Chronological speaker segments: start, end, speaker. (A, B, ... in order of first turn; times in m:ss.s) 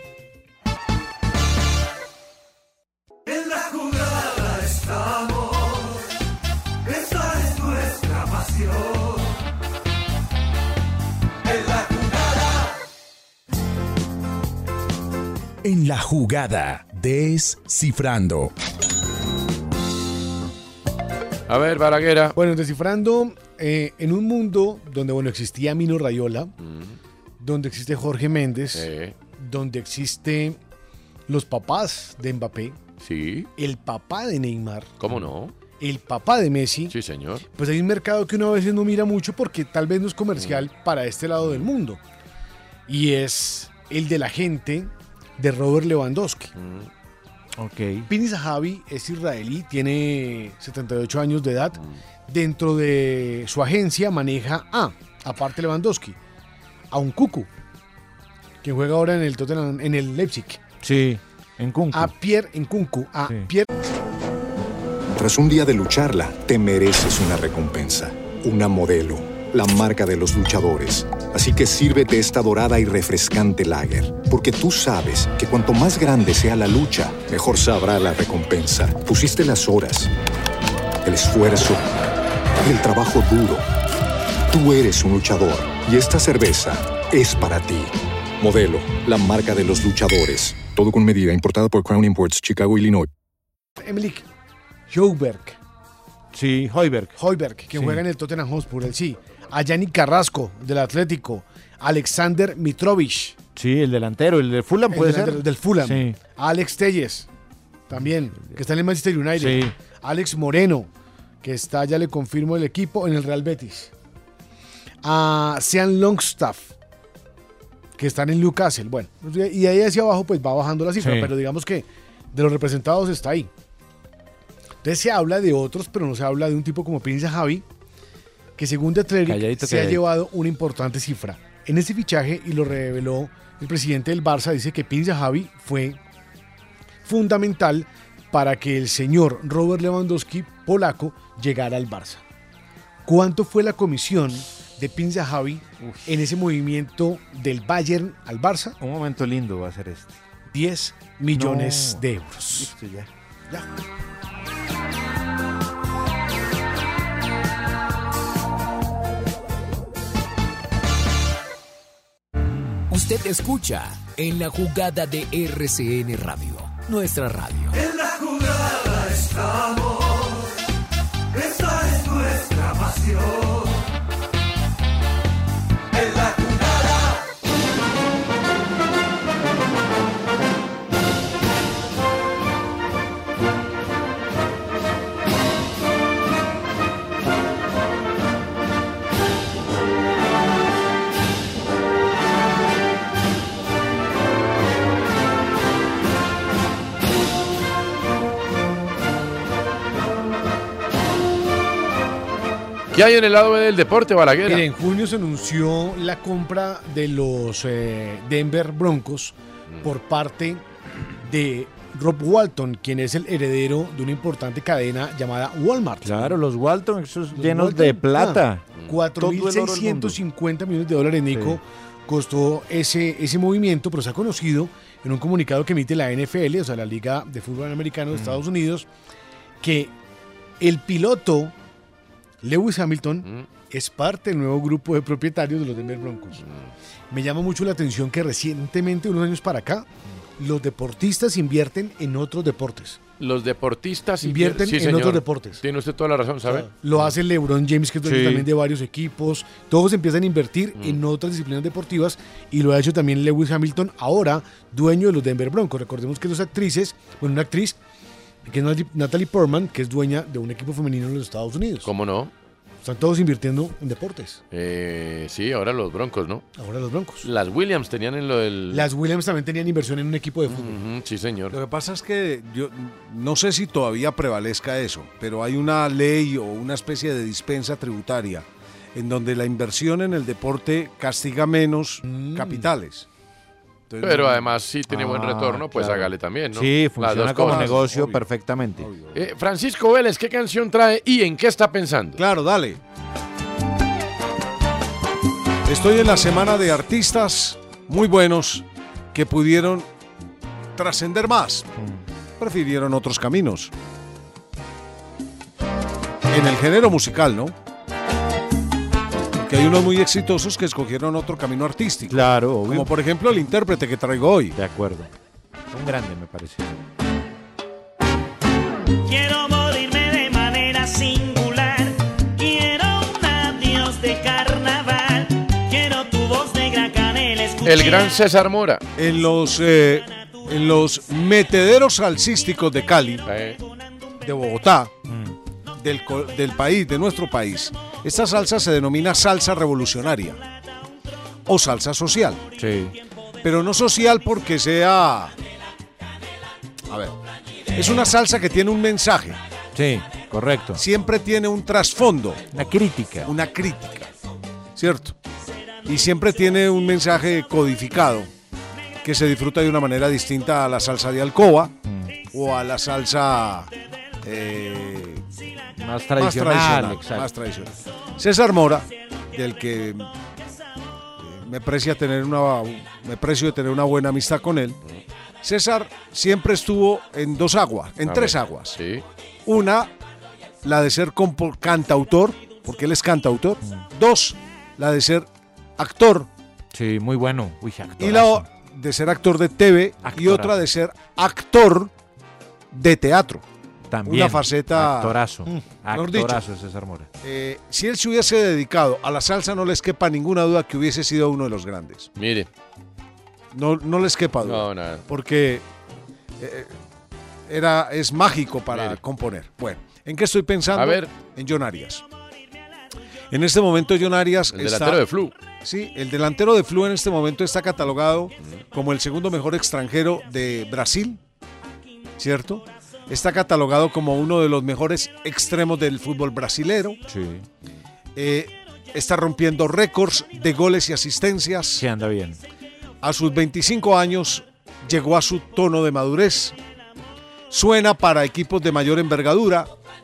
0:03.2-0:06.0 A
0:06.8-0:09.3 A
0:11.4-0:12.7 A
0:15.6-0:18.5 B
0:21.5-0:22.3 C
0:22.3-0:26.5 D
0:26.6-0:27.0 C
0:27.4-0:30.6 D
0:28.7-0:29.1 C
0:31.3-0:32.8 D
0:33.0-0:33.5 C
0:33.6-0:34.9 D
0:35.0-0:35.5 C
0:35.8-0:36.9 D
0:36.9-0:37.4 C
0:37.5-0:42.0 D
0:40.4-0:40.6 C
0:42.9-0:46.5 D
0:46.5-0:46.9 C
0:47.6-0:48.1 E
0:48.1-0:56.2 D
0:56.9-0:57.5 D
0:58.6-1:00.6 D
1:00.8-1:02.1 E
1:01.9-1:03.7 D
1:05.1-1:20.1 F
1:21.0-1:21.9 F
1:22.6-1:23.7 F
1:24.5-1:33.1 F
1:33.8-1:34.2 D
1:34.9-1:35.6 D
1:36.3-1:37.2 E
1:37.2-1:43.4 D
1:37.7-1:38.0 E
1:43.6-1:46.2 E
1:44.9-1:47.3 D
1:47.9-1:50.9 D
1:49.4-1:49.7 E
1:51.4-1:53.9 D
1:55.0-1:56.7 D
1:58.0-2:03.5 D
2:01.0-2:01.3 E
2:04.8-2:07.6 D
2:08.6-2:16.0 D
2:09.2-2:10.0 E
2:17.0-2:22.2 D
2:23.0-2:28.7 D
2:25.8-2:26.2 E
2:28.8-2:30.2 E
2:30.5-2:32.7 D
2:31.3-2:33.1 E
2:42.9-2:47.7 G
2:47.7-2:50.5 A
2:51.3-2:53.8 A
2:55.9-2:57.2 A
3:22.9-3:24.6 C
3:24.5-3:30.6 D
3:31.2-3:36.3 D
3:36.0-3:40.2 E
3:37.3-3:48.8 D
3:41.3-3:41.6 E
3:48.1-3:48.4 E
3:49.6-3:49.9 D
3:50.6-3:51.5 D
3:52.4-3:56.4 D
3:56.4-3:56.7 C
3:57.1-3:59.9 D
4:00.4-4:03.0 D
4:03.2-4:07.1 C
4:04.2-4:05.6 D
4:06.4-4:17.8 D
4:08.0-4:08.5 E
4:18.4-4:21.9 D
4:21.8-4:22.3 C
4:22.8-4:24.4 D
4:24.5-4:26.4 C
4:26.6-4:27.3 D
4:27.2-4:28.9 C
4:28.7-4:30.8 D
4:30.5-4:31.5 C
4:31.5-4:43.0 H
4:42.0-4:42.7 D
4:43.9-4:44.5 H
4:44.0-4:47.9 C
4:44.9-4:48.9 E
4:47.4-4:48.2 H
4:49.1-4:52.2 C
4:52.2-4:52.8 H
4:55.6-4:59.9 H
5:00.8-5:01.7 H
5:01.8-5:02.0 E
5:02.4-5:03.7 H
5:06.3-5:07.5 H
5:09.3-5:14.6 H
5:12.1-5:12.9 E
5:14.6-5:15.1 E
5:15.7-5:16.8 E
5:27.6-5:28.8 C
5:29.0-5:33.2 H
5:33.2-5:33.6 C
5:34.2-5:34.9 H
5:35.1-5:35.4 E
5:35.8-5:40.4 H
5:41.4-5:42.4 H
5:42.6-5:43.0 E
5:43.4-5:45.3 H
5:46.9-5:47.1 H
5:47.7-5:49.4 H
5:49.7-5:50.8 E
5:50.8-5:52.4 H
5:52.5-5:53.3 E
5:53.2-5:54.1 H
5:54.8-5:55.2 H
5:55.8-5:58.3 H
5:59.0-6:01.7 H
6:01.8-6:02.1 E
6:02.3-6:03.7 H
6:04.2-6:05.2 H
6:05.8-6:07.3 E
6:06.2-6:10.1 H
6:11.2-6:14.8 H
6:15.4-6:18.8 H
6:18.0-6:19.0 C
6:19.4-6:19.9 H
6:20.6-6:26.3 H
6:26.7-6:28.5 E
6:28.0-6:31.9 H
6:30.0-6:30.6 E
6:32.7-6:33.4 H
6:33.9-6:37.1 E
6:34.0-6:35.2 H
6:35.9-6:36.4 H
6:37.2-6:42.1 H
6:42.2-6:42.5 C
6:43.5-6:45.6 H
6:44.4-6:45.0 C
6:46.4-6:46.7 H
6:47.5-6:52.0 H
6:48.7-6:49.0 C
6:50.7-6:51.1 C
6:53.3-6:55.0 H
6:54.5-6:55.3 C
6:55.6-7:01.2 H
7:02.2-7:07.0 H
7:07.1-7:07.4 E
7:08.1-7:11.8 H
7:11.8-7:12.4 E
7:13.0-7:16.5 H
7:17.5-7:19.7 H